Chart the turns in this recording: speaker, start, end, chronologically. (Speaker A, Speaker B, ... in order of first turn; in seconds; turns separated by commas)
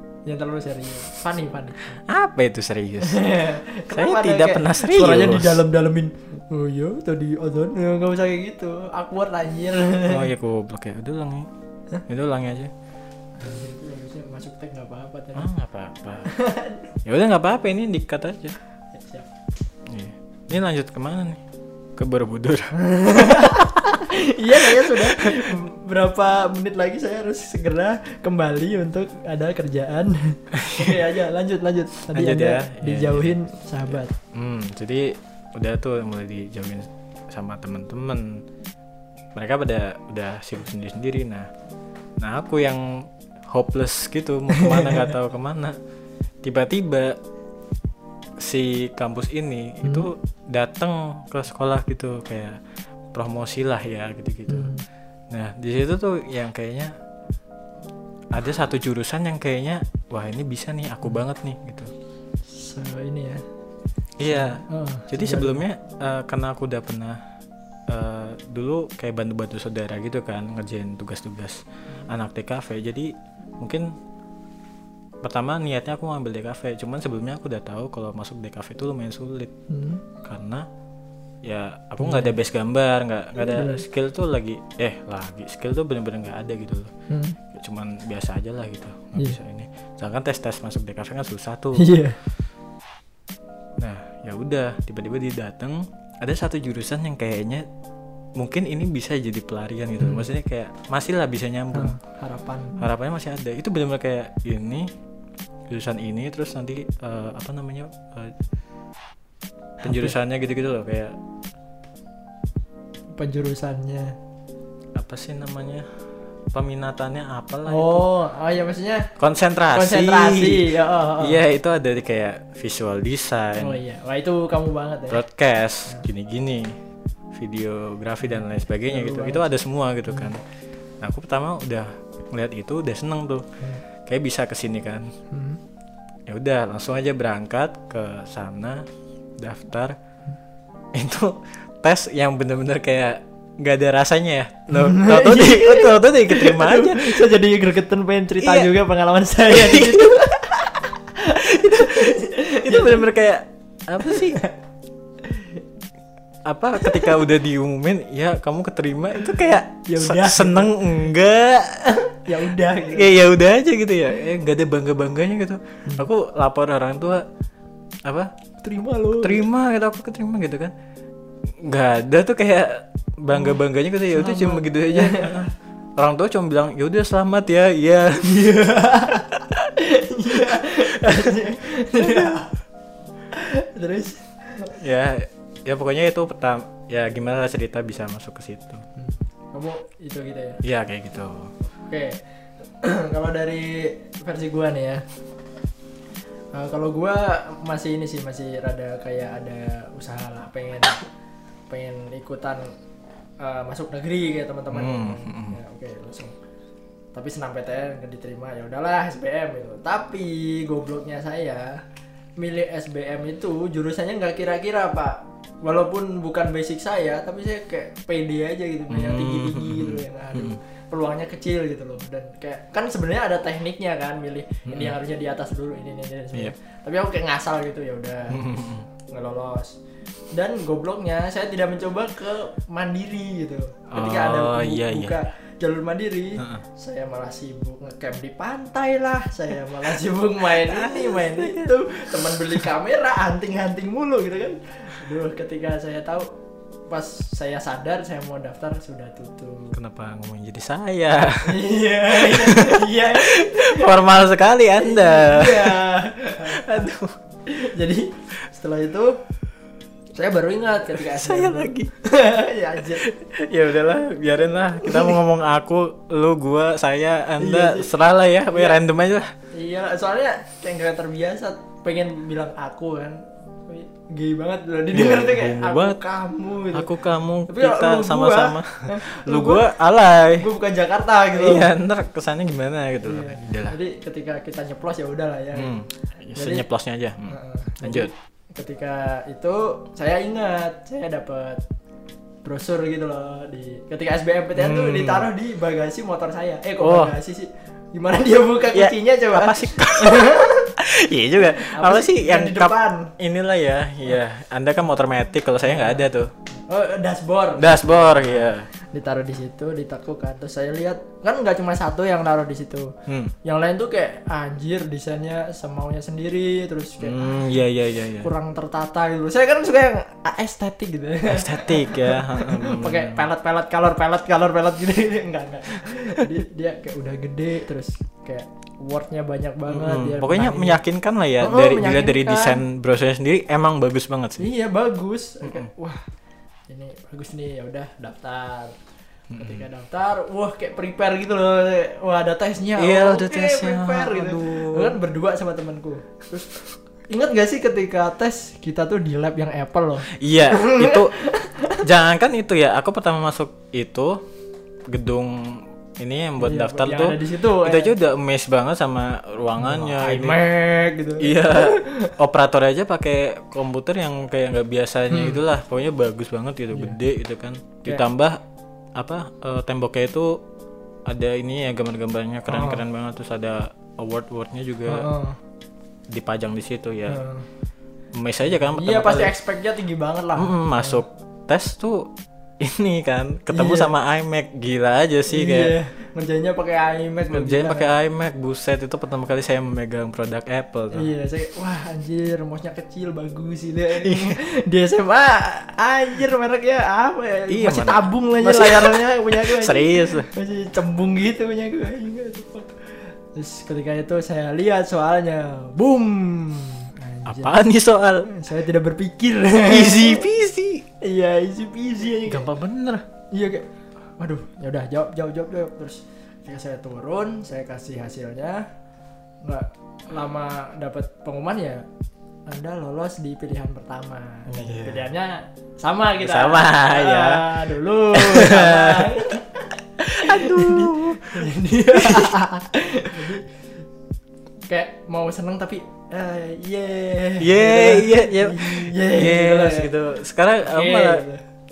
Speaker A: 0.2-2.0, Speaker B: 1.9-3.3, Speaker A: 3.0-10.3, Speaker B: 3.9-5.6, Speaker B: 10.0-11.5, Speaker B: 12.0-12.7, Speaker A: 13.4-15.5, Speaker B: 15.3-16.3, Speaker A: 16.3-16.9, Speaker B: 17.0-18.6, Speaker A: 18.9-19.3, Speaker B: 19.9-21.4, Speaker B: 22.0-24.1, Speaker A: 22.8-34.1, Speaker B: 24.6-25.6, Speaker B: 30.5-30.9, Speaker B: 32.1-38.4, Speaker B: 39.3-41.5, Speaker B: 42.2-45.8, Speaker A: 44.5-45.1, Speaker B: 46.4-47.2, Speaker B: 48.4-52.6, Speaker A: 49.8-50.1, Speaker B: 53.1-54.7, Speaker A: 54.5-54.8, Speaker B: 55.3-57.0, Speaker B: 58.3-61.9, Speaker A: 62.5-63.4, Speaker B: 64.2-67.2, Speaker A: 64.3-65.6, Speaker B: 67.9-74.0, Speaker B: 75.2-79.5, Speaker A: 79.7-80.0, Speaker B: 80.2-80.7, Speaker B: 81.4-86.9, Speaker A: 82.0-82.3, Speaker A: 83.4-83.8, Speaker A: 87.1-87.4, Speaker B: 87.5-91.9, Speaker A: 91.8-92.2, Speaker B: 93.8-97.7, Speaker B: 98.4-102.0, Speaker A: 100.0-100.3, Speaker A: 101.7-102.8, Speaker B: 102.8-104.9, Speaker B: 105.7-108.3, Speaker A: 109.8-110.1, Speaker B: 109.8-111.2, Speaker A: 113.2-114.2, Speaker B: 115.0-115.8, Speaker B: 116.5-118.1, Speaker A: 117.7-119.1, Speaker B: 119.2-120.7, Speaker A: 119.7-121.4, Speaker B: 121.2-123.8, Speaker A: 123.6-125.2, Speaker B: 125.1-126.7, Speaker B: 127.3-130.4, Speaker A: 128.2-129.4, Speaker B: 131.0-133.5, Speaker B: 134.1-135.1, Speaker A: 135.3-135.6, Speaker B: 136.3-138.9, Speaker B: 139.4-140.0, Speaker B: 140.9-147.2, Speaker A: 144.7-153.1, Speaker B: 148.4-148.7, Speaker B: 149.5-150.2, Speaker B: 151.4-154.4, Speaker A: 154.1-154.5, Speaker A: 155.2-155.6, Speaker B: 156.5-162.2, Speaker A: 156.8-157.1, Speaker A: 159.9-160.8, Speaker A: 162.2-163.1, Speaker B: 162.8-167.2, Speaker B: 168.1-168.3, Speaker A: 168.6-169.5, Speaker B: 169.2-170.7, Speaker B: 171.6-178.6, Speaker A: 174.1-175.5, Speaker A: 178.2-182.5, Speaker B: 179.1-179.6, Speaker B: 180.3-181.3, Speaker B: 182.0-182.4, Speaker A: 183.3-184.8, Speaker B: 184.7-188.8, Speaker A: 189.0-190.6, Speaker B: 190.6-191.5, Speaker A: 191.9-192.2, Speaker A: 192.8-195.1, Speaker A: 196.5-201.0, Speaker A: 201.7-202.7, Speaker A: 203.4-206.3, Speaker B: 204.7-205.6, Speaker A: 207.1-211.8, Speaker A: 212.4-229.8, Speaker B: 218.9-220.6, Speaker B: 224.6-224.9, Speaker B: 228.3-228.9, Speaker A: 230.3-246.3, Speaker B: 233.9-235.2, Speaker B: 236.4-236.6, Speaker B: 240.6-242.6, Speaker A: 246.9-249.8, Speaker B: 249.7-257.1, Speaker A: 251.4-254.0, Speaker A: 254.8-256.9, Speaker A: 257.4-259.2, Speaker A: 260.1-263.1, Speaker B: 261.0-261.9, Speaker B: 262.9-269.3, Speaker A: 264.8-265.2, Speaker A: 267.4-267.9, Speaker A: 268.5-268.8, Speaker A: 269.5-276.9, Speaker B: 274.9-276.0, Speaker B: 276.7-280.5, Speaker A: 277.5-279.7, Speaker A: 280.4-281.7, Speaker B: 281.3-283.8, Speaker A: 283.0-285.8, Speaker B: 285.5-288.1, Speaker A: 286.4-286.6, Speaker A: 287.3-291.6, Speaker A: 292.4-300.7, Speaker B: 294.6-295.3, Speaker B: 296.8-297.1, Speaker B: 298.7-306.3, Speaker A: 301.5-303.1, Speaker A: 305.6-306.1, Speaker A: 306.7-317.6, Speaker B: 307.6-308.7, Speaker B: 313.1-313.3, Speaker B: 317.0-318.3, Speaker A: 318.2-330.8, Speaker B: 321.2-323.2, Speaker B: 329.7-334.5, Speaker A: 331.4-332.6, Speaker A: 334.4-336.0, Speaker A: 336.7-338.8, Speaker B: 339.3-339.6, Speaker A: 339.4-346.5, Speaker B: 342.8-344.9, Speaker A: 347.1-351.8, Speaker B: 350.1-351.1, Speaker B: 351.8-354.2, Speaker B: 354.9-360.4, Speaker A: 356.4-357.9, Speaker A: 359.6-362.1, Speaker B: 361.2-368.4, Speaker A: 365.1-365.4, Speaker B: 369.0-370.4, Speaker B: 371.1-375.1, Speaker A: 372.5-372.8, Speaker A: 374.9-375.4, Speaker B: 376.1-377.2, Speaker A: 377.1-377.4, Speaker B: 378.1-379.3, Speaker A: 378.6-381.0, Speaker B: 380.4-385.7, Speaker A: 383.5-383.9, Speaker A: 385.3-387.9, Speaker B: 387.3-391.1, Speaker A: 390.9-407.6, Speaker B: 394.0-394.4, Speaker B: 397.5-400.3, Speaker B: 407.2-408.3, Speaker A: 408.3-410.2, Speaker B: 409.6-410.8, Speaker A: 411.0-412.5, Speaker B: 412.2-413.0, Speaker A: 413.3-418.7, Speaker A: 419.4-421.9, Speaker A: 422.4-433.5, Speaker B: 424.5-425.1, Speaker B: 426.2-429.4, Speaker B: 430.0-432.3, Speaker A: 434.7-439.9, Speaker B: 437.4-441.2, Speaker A: 440.6-441.4